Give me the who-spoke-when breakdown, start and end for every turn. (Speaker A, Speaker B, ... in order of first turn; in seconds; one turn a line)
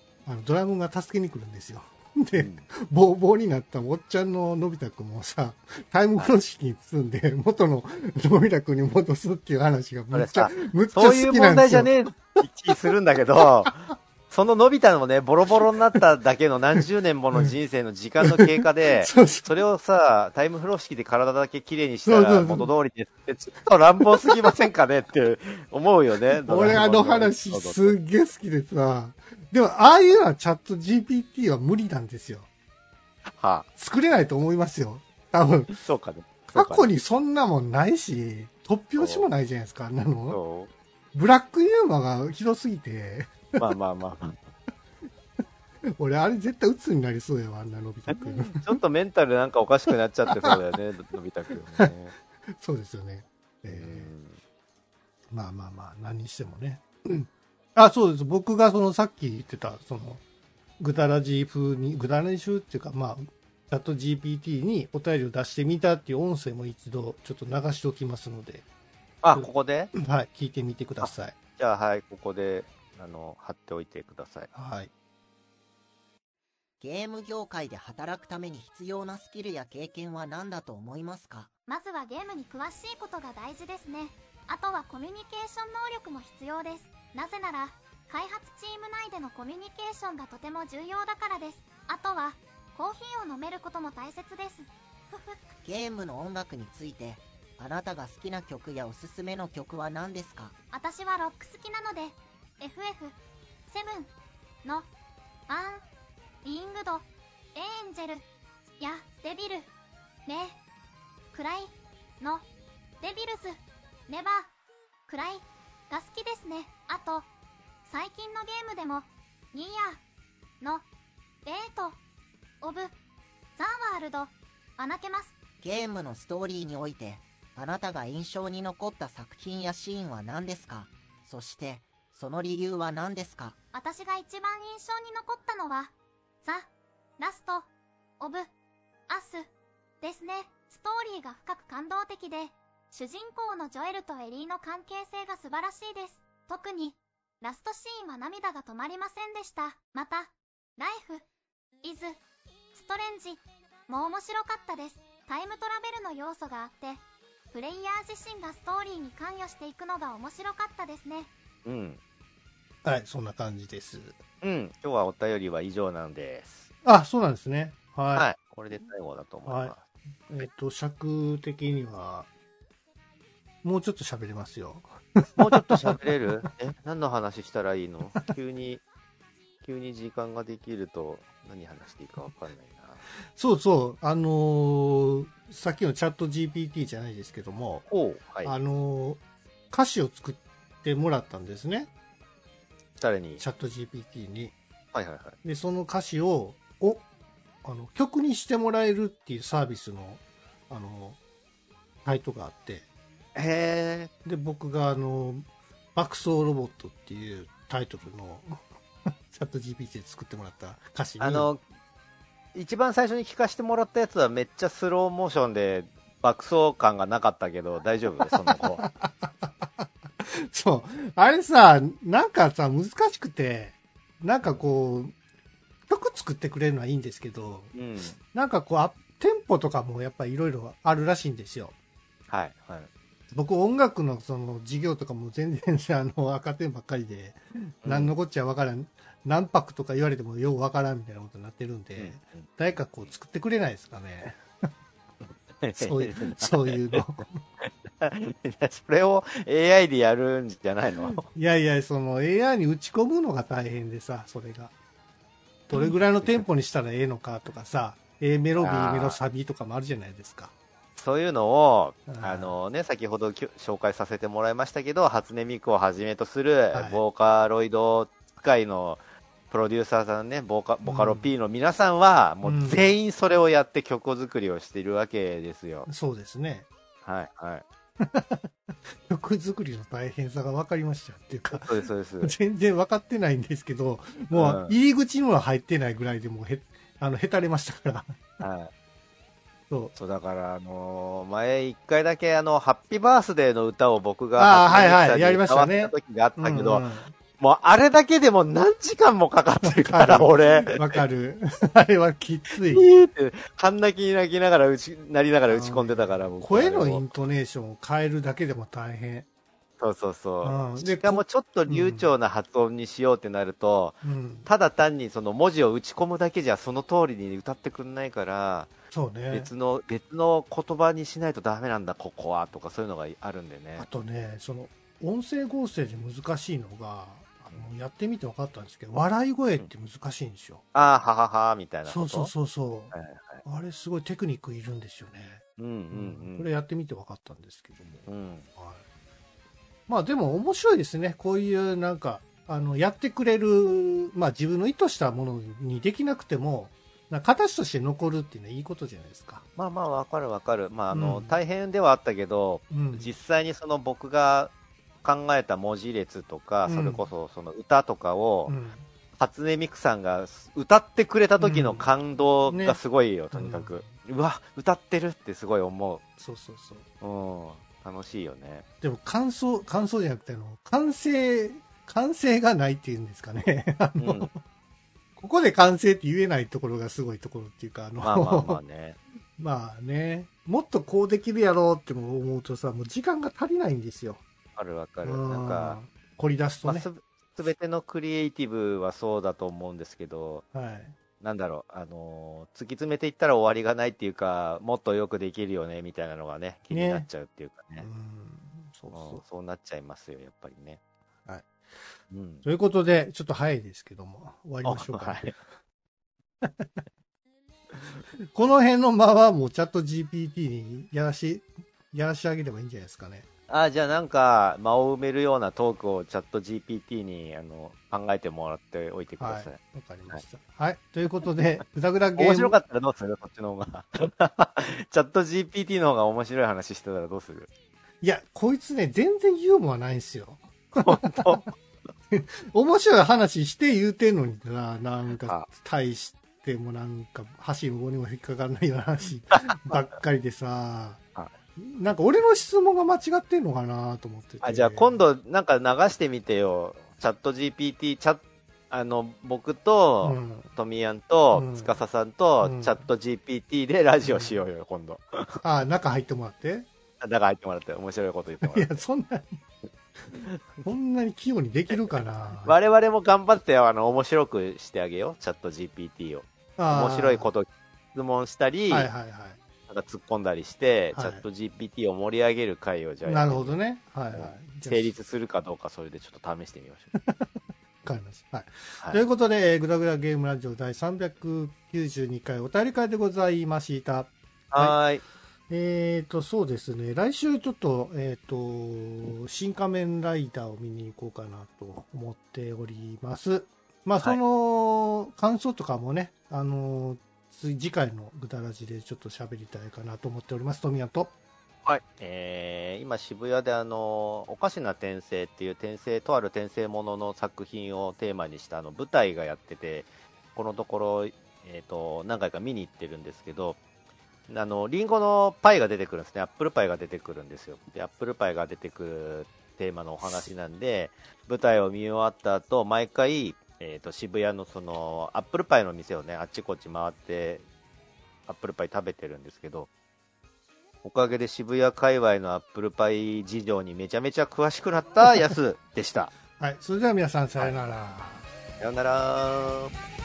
Speaker A: 0.2-12.8
Speaker B: 2.3-2.7
Speaker B: 10.1-28.0
Speaker A: 18.2-19.6
Speaker A: 22.0-22.7
Speaker A: 24.1-24.4
Speaker A: 26.4-32.5
Speaker B: 33.3-33.7
Speaker A: 33.8-35.7
Speaker B: 35.7-36.9
Speaker A: 36.5-40.4
Speaker B: 39.0-39.3
Speaker B: 40.3-40.7
Speaker A: 41.1-43.7
Speaker B: 43.6-44.4
Speaker A: 45.9-48.7
Speaker B: 48.1-52.1
Speaker A: 52.5-54.1
Speaker B: 53.7-54.4
Speaker A: 55.3-60.2
Speaker A: 60.8-68.6
Speaker B: 69.2-69.9
Speaker A: 69.3-71.4
Speaker B: 71.0-74.5
Speaker A: 74.5-74.9
Speaker C: 76.8-81.5
Speaker D: 81.7-95.4
Speaker C: 95.6-100.5
Speaker D: 100.7-103.1
Speaker D: 103.7-104.1
Speaker D: 105.5-105.8
Speaker D: 106.4-108.2
Speaker D: 108.8-109.7
Speaker D: 110.2-110.6
Speaker D: 111.3-112.5
Speaker D: 113.0-114.5
Speaker D: 115.1-117.3
Speaker D: 117.8-120.0
Speaker D: 121.4-122.0
Speaker D: 122.6-122.9
Speaker D: 123.6-125.4
Speaker C: 125.6-133.6
Speaker D: 133.7-137.7
Speaker D: 138.2-138.5
Speaker D: 139.1-139.5
Speaker D: 140.0-151.2
Speaker D: 151.8-152.2
Speaker D: 152.7-161.3
Speaker B: 161.6-162.0
Speaker A: 162.8-164.2
Speaker B: 164.4-166.7
Speaker A: 166.8-168.3
Speaker B: 168.1-169.8
Speaker A: 169.4-169.7
Speaker A: 170.3-172.3
Speaker A: 173.6-176.0
Speaker B: 175.4-178.8
Speaker B: 179.6-183.0
Speaker A: 183.3-187.8
Speaker B: 187.9-188.5
Speaker A: 188.4-191.9
Speaker B: 193.0-193.4
Speaker A: 193.4-194.5
Speaker B: 194.9-195.3
Speaker A: 195.4-197.0
Speaker A: 197.6-201.2
Speaker A: 202.0-202.8
Speaker B: 203.3-204.1
Speaker A: 204.2-211.5
Speaker B: 211.2-211.6
Speaker B: 212.5-218.8
Speaker A: 218.3-225.1
Speaker A: 225.9-227.7
Speaker B: 227.7-228.2
Speaker A: 228.3-231.7
Speaker B: 232.3-232.9
Speaker A: 233.3-244.7
Speaker B: 237.8-238.1
Speaker B: 241.9-242.5
Speaker B: 245.6-247.1
Speaker A: 245.8-247.4
Speaker B: 247.6-251.3
Speaker A: 251.1-254.7
Speaker A: 255.7-260.5
Speaker B: 255.8-256.4
Speaker B: 258.6-259.2
Speaker B: 260.9-275.9
Speaker A: 262.1-262.5
Speaker A: 266.7-267.0
Speaker A: 270.8-271.3
Speaker A: 272.4-272.9
Speaker A: 275.9-276.6
Speaker B: 277.0-277.6
Speaker A: 278.0-288.2
Speaker B: 281.5-282.3
Speaker B: 284.3-284.8
Speaker B: 288.4-288.7
Speaker B: 289.9-296.9
Speaker A: 294.4-297.1
Speaker B: 297.4-300.9
Speaker A: 299.6-302.9
Speaker B: 302.7-307.1
Speaker A: 305.5-309.3
Speaker B: 309.8-318.7
Speaker A: 310.4-312.1
Speaker A: 314.0-314.5
Speaker A: 318.9-319.5
Speaker B: 319.3-323.9
Speaker A: 323.8-330.6
Speaker B: 330.7-332.3
Speaker A: 331.9-338.8
Speaker B: 332.9-333.4
Speaker B: 335.6-336.5
Speaker B: 338.1-338.4
Speaker A: 339.9-349.4
Speaker B: 349.6-354.5
Speaker A: 350.9-351.4
Speaker A: 352.7-353.1
Speaker B: 355.0-358.5
Speaker A: 356.6-357.0
Speaker A: 358.5-358.9
Speaker B: 359.2-366.0
Speaker A: 361.4-361.9
Speaker A: 362.5-362.8
Speaker A: 363.3-363.9
Speaker A: 366.2-366.9
Speaker B: 367.0-368.6
Speaker A: 368.8-374.4
Speaker B: 374.0-374.3
Speaker A: 375.2-378.6
Speaker B: 378.0-379.0
Speaker A: 379.4-384.2
Speaker B: 384.6-385.8
Speaker A: 385.0-386.9
Speaker B: 386.6-390.4
Speaker A: 390.5-390.9
Speaker B: 391.2-397.9
Speaker A: 396.7-397.1
Speaker A: 397.8-399.2
Speaker B: 398.9-400.8
Speaker A: 401.2-401.9
Speaker B: 402.1-402.4
Speaker A: 402.4-405.4
Speaker B: 404.6-405.3
Speaker A: 406.4-406.7
Speaker A: 408.2-413.2
Speaker B: 413.5-419.6
Speaker A: 419.2-422.6
Speaker B: 422.2-427.5
Speaker A: 428.0-431.4
Speaker B: 430.8-431.5
Speaker A: 432.1-441.0
Speaker B: 439.3-439.8
Speaker A: 441.6-445.0
Speaker B: 444.4-455.4
Speaker A: 450.0-450.5
Speaker A: 451.3-451.7
Speaker A: 452.4-452.8
Speaker A: 454.0-454.4
Speaker A: 455.4-456.7
Speaker B: 457.0-458.8
Speaker A: 458.4-459.4
Speaker A: 460.1-462.6
Speaker B: 461.7-468.9
Speaker A: 466.6-467.3
Speaker A: 468.7-469.4
Speaker B: 469.7-473.6
Speaker A: 470.9-471.2
Speaker A: 473.0-474.9
Speaker B: 474.1-476.9
Speaker A: 477.0-484.8
Speaker B: 478.8-479.1
Speaker B: 484.5-485.0
Speaker A: 485.5-501.1
Speaker B: 501.6-513.6
Speaker B: 514.3-527.4
Speaker B: 528.3-529.7
Speaker B: 530.8-536.1
Speaker A: 536.4-538.3
Speaker B: 537.4-537.6
Speaker B: 538.6-539.7